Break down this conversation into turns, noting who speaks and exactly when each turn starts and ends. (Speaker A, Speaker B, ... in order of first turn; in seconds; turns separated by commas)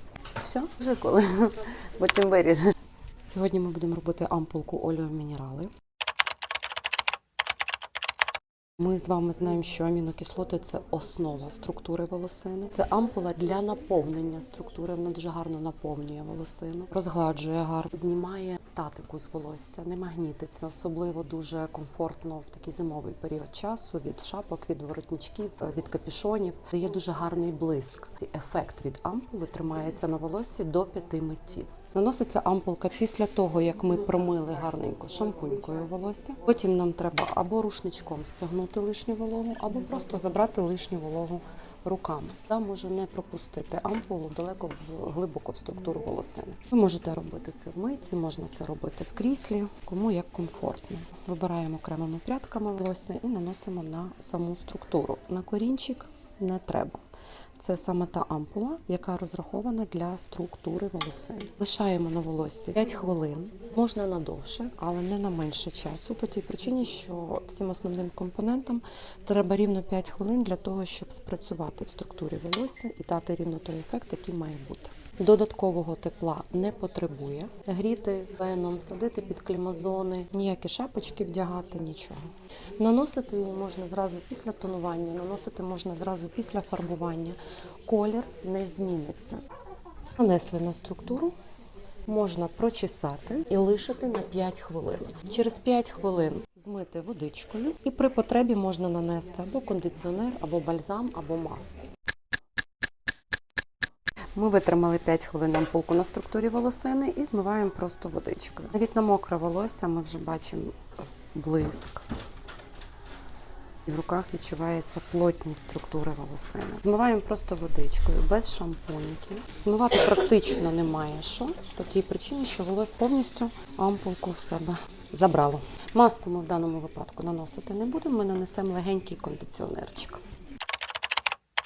Speaker A: 0.4-2.6, Speaker A: 3.2-5.7, Speaker A: 8.8-57.0, Speaker A: 57.6-82.2, Speaker A: 82.8-89.4, Speaker A: 90.2-91.3, Speaker A: 92.1-101.8, Speaker A: 104.3-110.8, Speaker A: 111.3-112.0, Speaker A: 113.8-130.2